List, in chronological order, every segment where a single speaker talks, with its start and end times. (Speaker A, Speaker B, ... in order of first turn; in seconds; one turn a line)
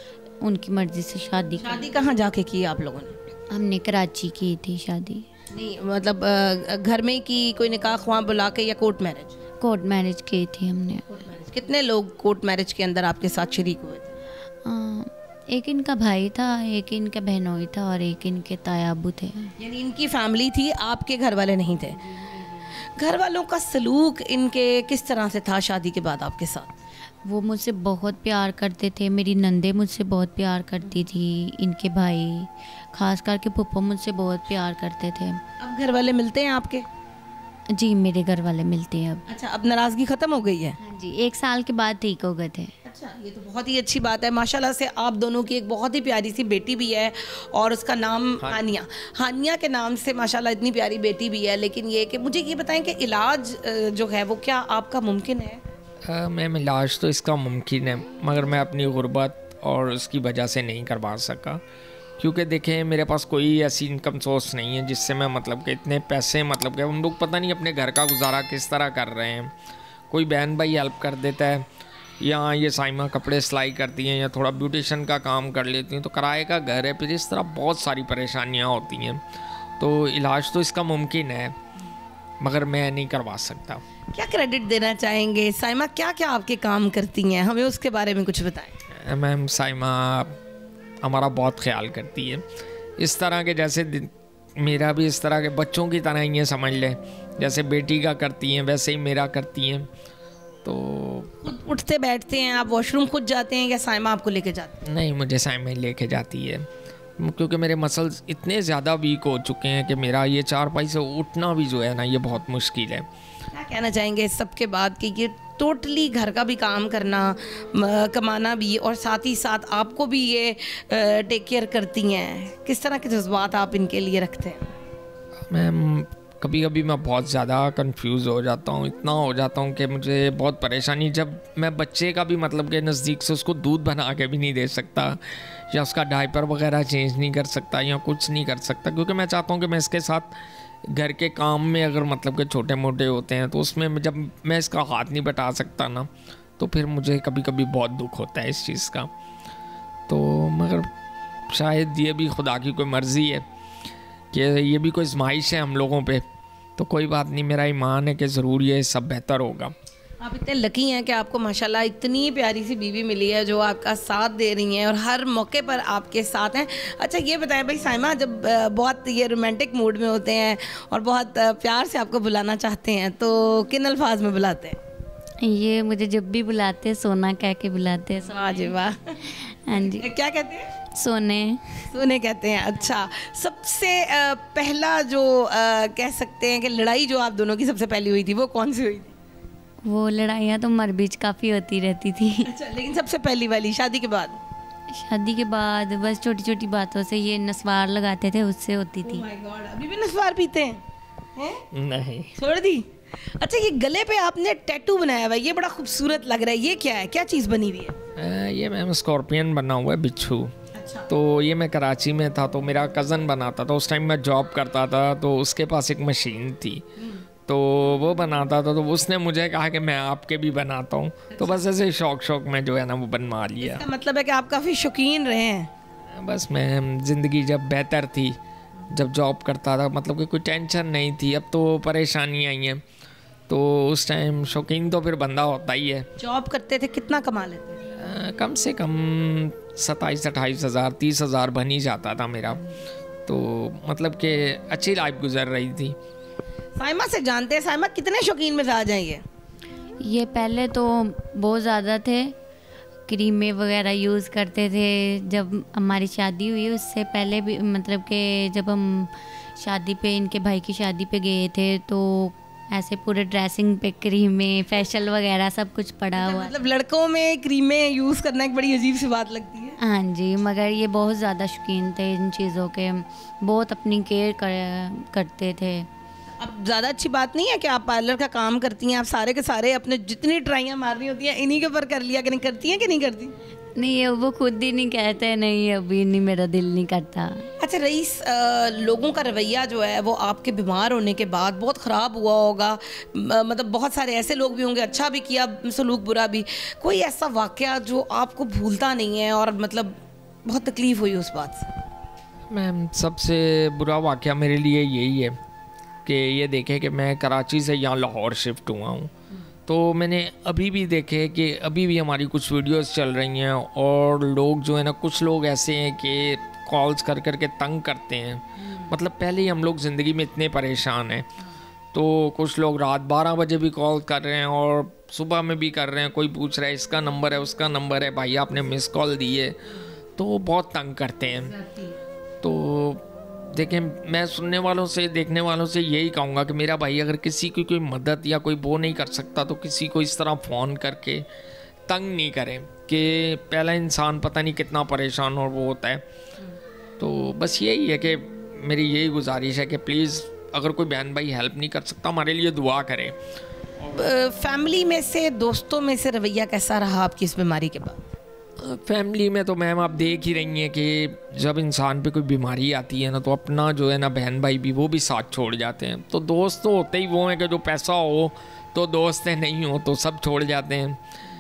Speaker A: 0.4-1.9
Speaker B: 1.6-3.1
Speaker A: 3.5-5.3
Speaker B: 5.5-9.4
Speaker A: 9.6-11.1
Speaker B: 11.1-14.1
Speaker A: 14.7-19.5
Speaker B: 19.6-26.8
Speaker A: 27.2-35.4
Speaker B: 35.6-36.9
Speaker A: 37.7-39.2
Speaker B: 39.3-40.8
Speaker A: 40.8-42.7
Speaker B: 42.8-55.6
Speaker C: 56.1-61.6
Speaker C: 62.2-69.5
Speaker C: 70.1-71.7
Speaker C: 72.2-79.2
Speaker C: 79.8-81.6
Speaker C: 82.4-83.8
Speaker B: 84.1-88.8
Speaker C: 88.9-90.4
Speaker C: 91.0-92.4
Speaker C: 93.0-99.9
Speaker C: 100.6-101.4
Speaker B: 101.4-104.8
Speaker C: 104.8-113.1
Speaker B: 113.5-124.7
Speaker C: 125.5-140.3
Speaker C: 140.9-149.1
Speaker C: 150.1-150.9
Speaker C: 151.5-153.4
Speaker C: 154.3-156.2
Speaker C: 156.8-159.7
Speaker B: 160.2-174.8
Speaker A: 175.4-180.1
Speaker B: 178.2-179.2
Speaker B: 179.8-180.7
Speaker A: 180.9-181.9
Speaker B: 181.9-189.1
Speaker A: 189.8-192.5
Speaker B: 192.4-194.4
Speaker A: 194.9-199.3
Speaker B: 199.0-200.8
Speaker B: 201.3-201.7
Speaker C: 201.7-202.3
Speaker B: 202.4-207.9
Speaker C: 208.2-210.5
Speaker B: 210.7-211.1
Speaker C: 211.1-216.8
Speaker B: 217.0-217.2
Speaker C: 217.5-223.8
Speaker B: 221.3-221.7
Speaker B: 223.6-225.7
Speaker C: 226.1-228.4
Speaker C: 228.9-232.8
Speaker C: 233.5-236.1
Speaker B: 236.2-237.9
Speaker C: 238.0-242.6
Speaker C: 243.3-246.0
Speaker B: 246.8-249.2
Speaker A: 250.0-252.3
Speaker A: 253.1-266.5
Speaker B: 266.1-269.8
Speaker A: 269.8-275.9
Speaker B: 276.4-283.3
Speaker A: 283.8-287.5
Speaker B: 287.6-301.7
Speaker C: 302.5-305.4
Speaker C: 306.1-309.1
Speaker C: 309.7-321.3
Speaker B: 318.6-318.9
Speaker C: 321.9-329.6
Speaker C: 330.2-331.5
Speaker B: 331.4-332.0
Speaker C: 332.4-341.3
Speaker C: 341.9-346.0
Speaker C: 347.0-353.2
Speaker B: 353.9-358.0
Speaker C: 358.6-371.0